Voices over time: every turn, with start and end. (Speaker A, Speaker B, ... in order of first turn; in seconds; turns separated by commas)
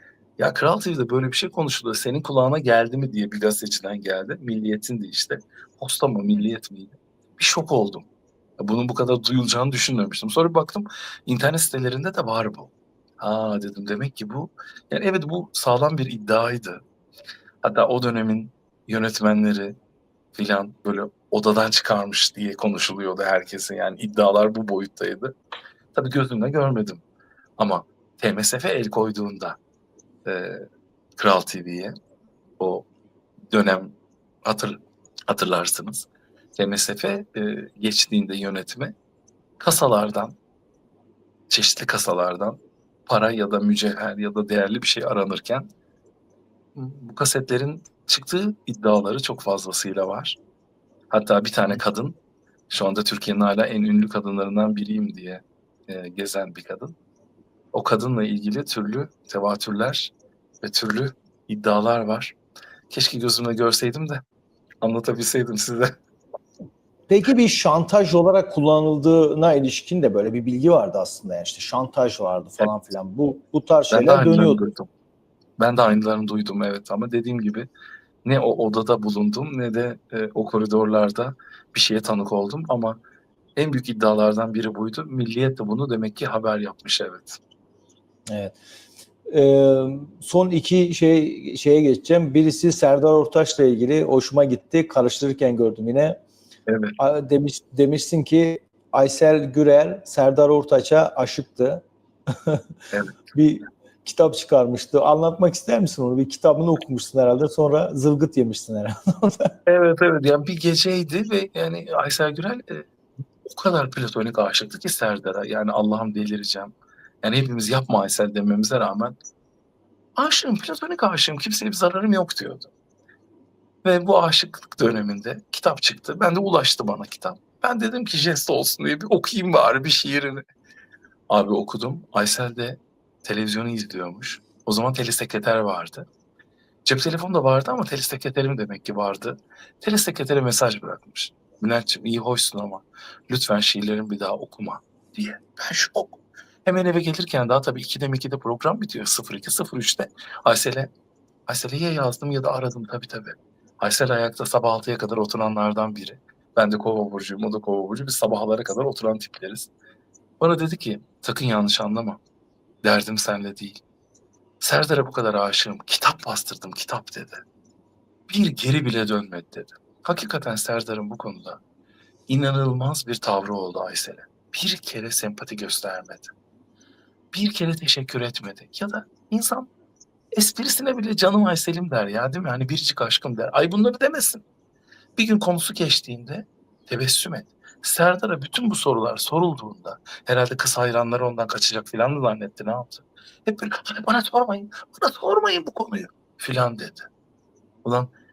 Speaker A: 0.4-8.1, Speaker A: 8.6-16.8, Speaker A: 17.6-19.8, Speaker A: 20.3-25.3, Speaker A: 25.9-27.0, Speaker A: 27.6-29.6, Speaker A: 30.2-30.6, Speaker A: 31.2-31.9, Speaker A: 32.6-32.9, Speaker A: 33.5-38.9, Speaker A: 39.6-40.4, Speaker A: 41.5-45.7, Speaker A: 46.8-50.4, Speaker A: 51.1-52.2, Speaker A: 52.7-56.9, Speaker A: 57.7-62.4, Speaker A: 62.9-64.2, Speaker A: 64.8-66.0, Speaker B: 67.1-74.7, Speaker A: 73.9-74.9, Speaker A: 75.6-77.7, Speaker A: 78.2-83.0, Speaker A: 83.6-87.4, Speaker B: 88.3-88.6, Speaker B: 89.3-96.2, Speaker A: 96.7-97.0, Speaker B: 97.0-101.8, Speaker A: 102.9-103.2, Speaker B: 103.3-109.5, Speaker A: 109.7-112.9, Speaker A: 113.4-119.2, Speaker A: 120.2-122.7, Speaker A: 123.8-130.4, Speaker A: 131.3-136.1, Speaker A: 136.9-150.9, Speaker A: 151.5-159.7, Speaker A: 160.4-162.2, Speaker A: 162.8-163.8, Speaker A: 164.6-167.4, Speaker A: 168.3-171.6, Speaker A: 172.3-176.3, Speaker A: 177.3-179.7, Speaker A: 180.4-184.4, Speaker A: 185.2-197.1, Speaker A: 197.8-198.1